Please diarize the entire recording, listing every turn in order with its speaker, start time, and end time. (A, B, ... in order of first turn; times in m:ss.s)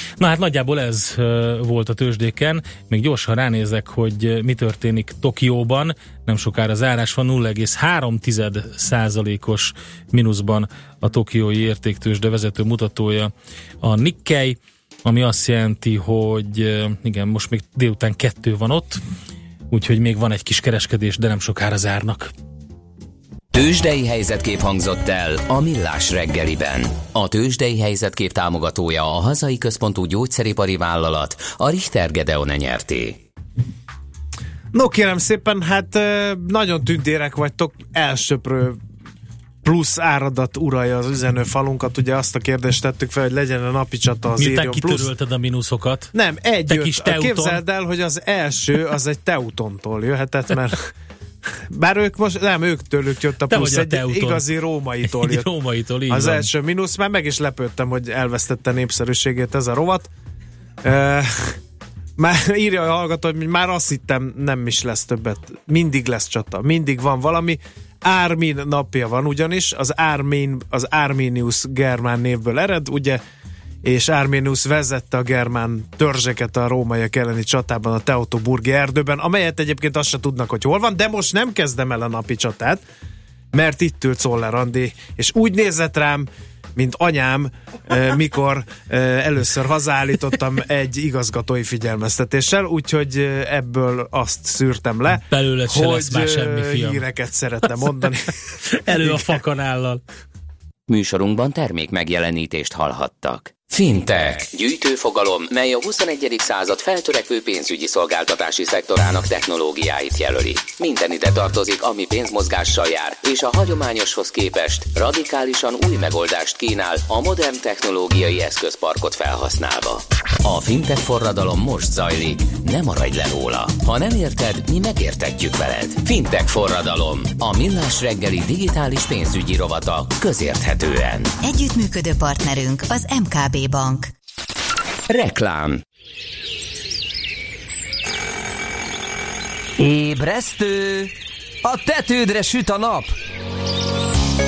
0:00.2-0:13.3 A
0:13.8-0:19.0 A
0:19.7-0:22.3 A
0:23.5-0:33.2 B
0:34.7-0:38.8 C
0:39.6-0:45.1 C
0:44.4-0:46.1 A
0:46.1-0:50.9 C
0:46.7-0:47.6 A
0:51.5-0:55.5 C
0:53.5-0:54.4 A
0:55.0-0:56.5 A
0:56.1-1:00.1 C
1:00.8-1:01.6 C
1:02.2-1:13.2 C
1:13.8-1:22.8 C
1:23.5-1:38.3 C
1:35.3-1:37.0 A
1:38.8-1:40.0 A
1:38.9-1:39.3 C
1:40.9-2:11.3 B
2:11.4-2:14.1 D
2:15.1-2:15.8 B
2:19.8-2:21.1 E
2:21.6-2:23.1 E